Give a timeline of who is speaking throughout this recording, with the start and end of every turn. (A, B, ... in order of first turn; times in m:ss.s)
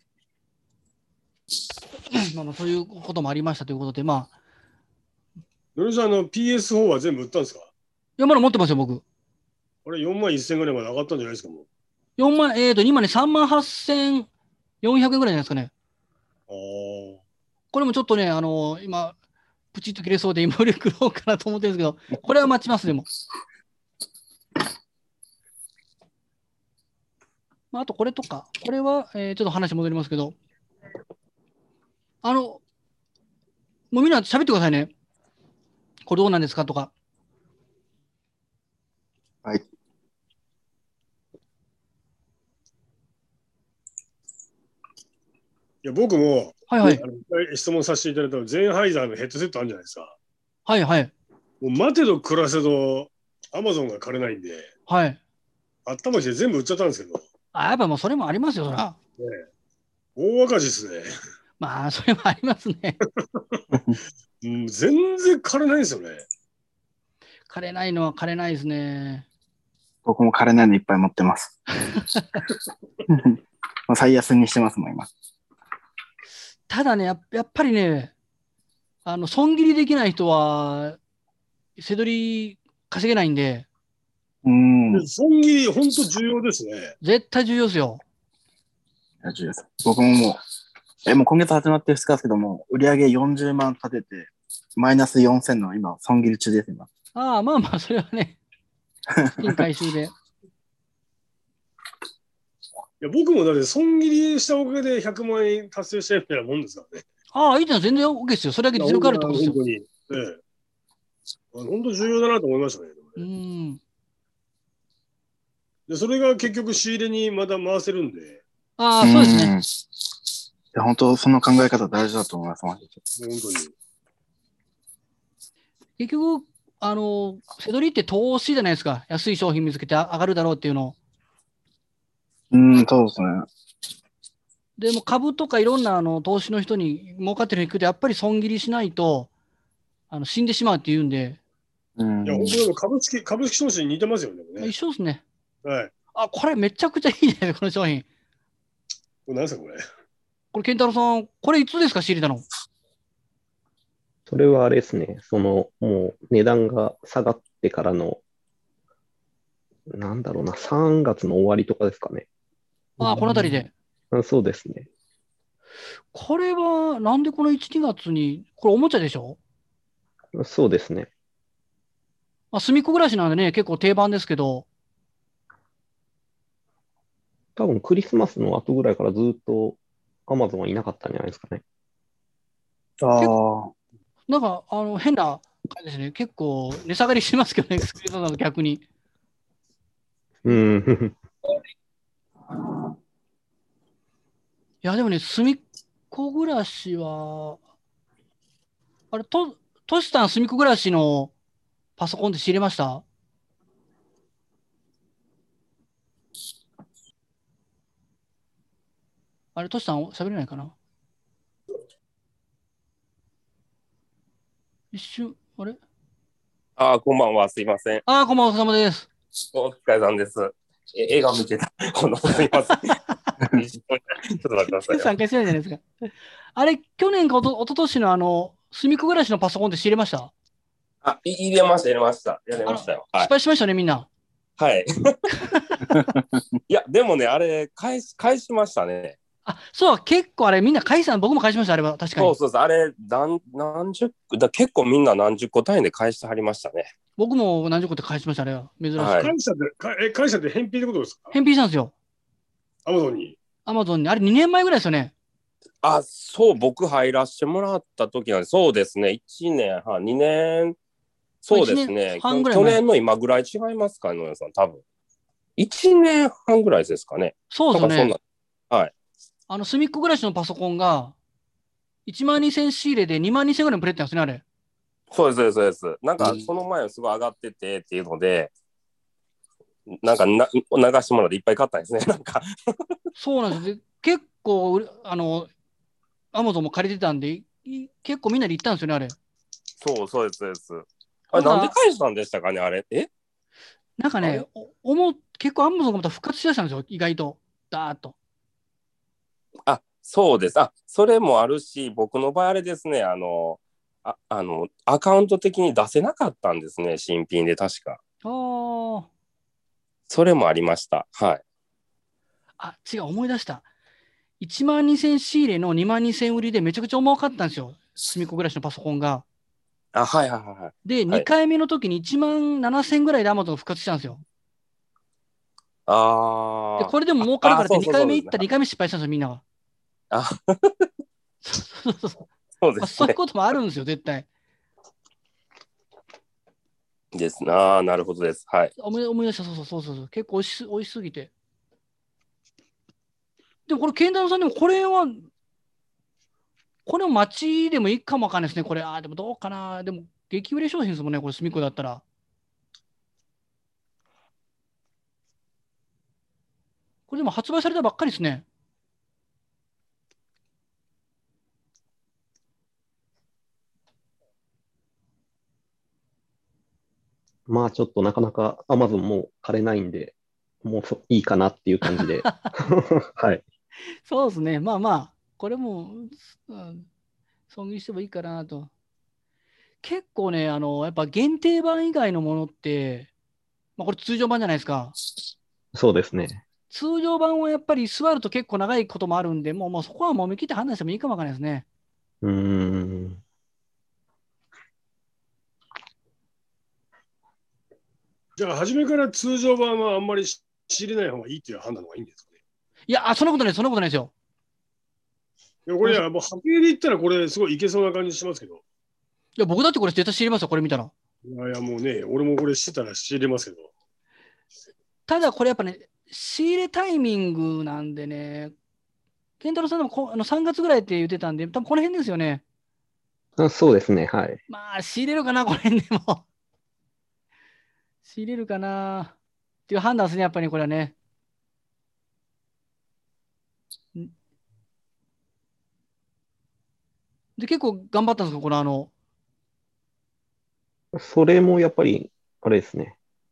0:02.1-0:04.3 A
0:05.8-0:07.7 B
0:08.2-0:09.0 A
0:09.9-0:11.7 B
0:12.2-0:14.3 A
0:14.8-0:15.7 A
0:16.5-0:17.2 B
0:17.7-0:19.2 A
0:19.7-0:23.1 A
0:27.7-0:30.4 A
0:32.2-0:32.6 A
0:33.9-0:34.9 A
0:36.1-0:36.9 A
0:45.8-0:50.1 B
0:46.7-0:47.0 A
0:50.7-0:51.1 A
0:51.6-0:54.7 B
0:54.9-0:55.2 A
0:55.9-0:57.2 B
0:57.5-0:59.0 A
1:00.2-1:01.1 B
1:01.6-1:03.0 A
1:03.2-1:03.6 B
1:03.7-1:04.0 C
1:04.4-1:06.2 B
1:07.5-1:09.3 A
1:10.0-1:11.6 C
1:11.9-1:12.4 A
1:13.1-1:15.1 C
1:16.7-1:18.1 A
1:19.0-1:21.0 A
1:21.8-1:23.7 A
1:24.4-1:25.1 C
1:24.9-1:26.9 B
1:27.0-1:28.0 A
1:29.2-1:30.4 C
1:31.1-1:36.9 C
1:37.2-1:38.4 A
1:39.2-1:39.5 C
1:39.4-1:40.1 A
1:43.0-1:47.0 B
1:47.3-1:49.6 A
1:48.8-1:50.4 B
1:51.5-1:53.2 B
1:53.2-1:53.8 A
1:55.9-1:58.4 B
1:58.8-1:59.6 A
1:59.0-1:59.6 C
2:00.7-2:03.0 C
2:03.2-2:03.7 B
2:06.0-2:11.0 A
2:12.5-2:13.5 C
2:14.8-2:19.3 A
2:20.1-2:21.4 A
2:22.0-2:22.6 C
2:22.2-2:24.7 B
2:24.6-2:25.2 A
2:25.6-2:25.9 B
2:26.1-2:28.0 A
2:29.3-2:29.8 B
2:30.5-2:32.4 A
2:34.3-2:38.2 D
2:39.9-2:42.3 D
2:43.0-2:44.9 D
2:43.0-2:43.7 A
2:46.1-2:49.4 A
2:50.3-2:51.1 D
2:52.5-2:54.7 A
2:57.6-3:01.6 D
3:03.0-3:03.7 C
3:04.3-3:08.8 A
3:10.4-3:11.2 D
3:14.8-3:17.6 A
3:19.1-3:21.3 A
3:22.0-3:23.0 A
3:29.6-3:30.7 A
3:34.9-3:35.8 A
3:36.8-3:38.0 E
3:38.1-3:39.1 A
3:39.5-3:43.0 E
3:43.5-3:45.1 E
3:44.8-3:45.8 A
3:46.6-3:50.3 A
3:51.0-3:53.3 E
3:52.7-3:54.1 A
3:54.6-3:55.2 E
3:55.3-3:56.0 A
3:56.7-3:59.2 E
3:59.5-4:02.3 A
4:02.2-4:06.9 E
4:07.2-4:09.2 A
4:09.0-4:09.3 E
4:09.2-4:11.3 B
4:11.3-4:11.9 A
4:12.9-4:13.4 B
4:13.7-4:15.1 A
4:15.8-4:20.8 E
4:21.4-4:24.8 E
4:21.5-4:22.8 A
4:25.6-4:28.2 E
4:27.5-4:28.2 A
4:29.5-4:31.2 A
4:32.1-4:34.4 A
4:35.1-4:38.5 E
4:39.9-4:42.5 E
4:43.2-4:45.5 A
4:46.3-4:49.2 A
4:49.8-4:53.1 E
4:51.3-4:51.7 A
4:54.0-4:58.2 A
4:59.7-5:08.0 E
5:08.2-5:09.1 A
5:10.1-5:11.4 E
5:12.6-5:13.6 A
5:14.4-5:19.2 A
5:19.9-5:21.3 E
5:20.8-5:24.2 A
5:25.9-5:28.5 E
5:26.8-5:29.4 A
5:30.1-5:30.9 E
5:31.4-5:32.2 A
5:32.6-5:33.2 E
5:32.8-5:34.3 A
5:37.1-5:38.7 E
5:38.8-5:41.3 A
5:43.7-5:45.3 A
5:46.9-5:52.0 A
5:57.1-5:58.4 A
6:07.5-6:13.4 D
6:11.9-6:12.5 A
6:14.1-6:16.9 A
6:17.5-6:18.7 A
6:19.8-6:23.1 A
6:23.8-6:25.0 A
6:25.7-6:26.4 D
6:26.7-6:31.6 A
6:32.2-6:33.2 D
6:38.4-6:42.2 B
6:42.9-6:44.1 A
6:45.7-6:48.6 B
6:49.4-6:50.9 A
6:51.2-6:53.7 B
6:55.1-6:58.5 A
6:59.4-7:02.4 A
7:03.4-7:04.4 D
7:04.5-7:06.2 A
7:08.0-7:09.2 A
7:09.7-7:11.0 A
7:17.4-7:18.9 A
7:20.9-7:23.0 D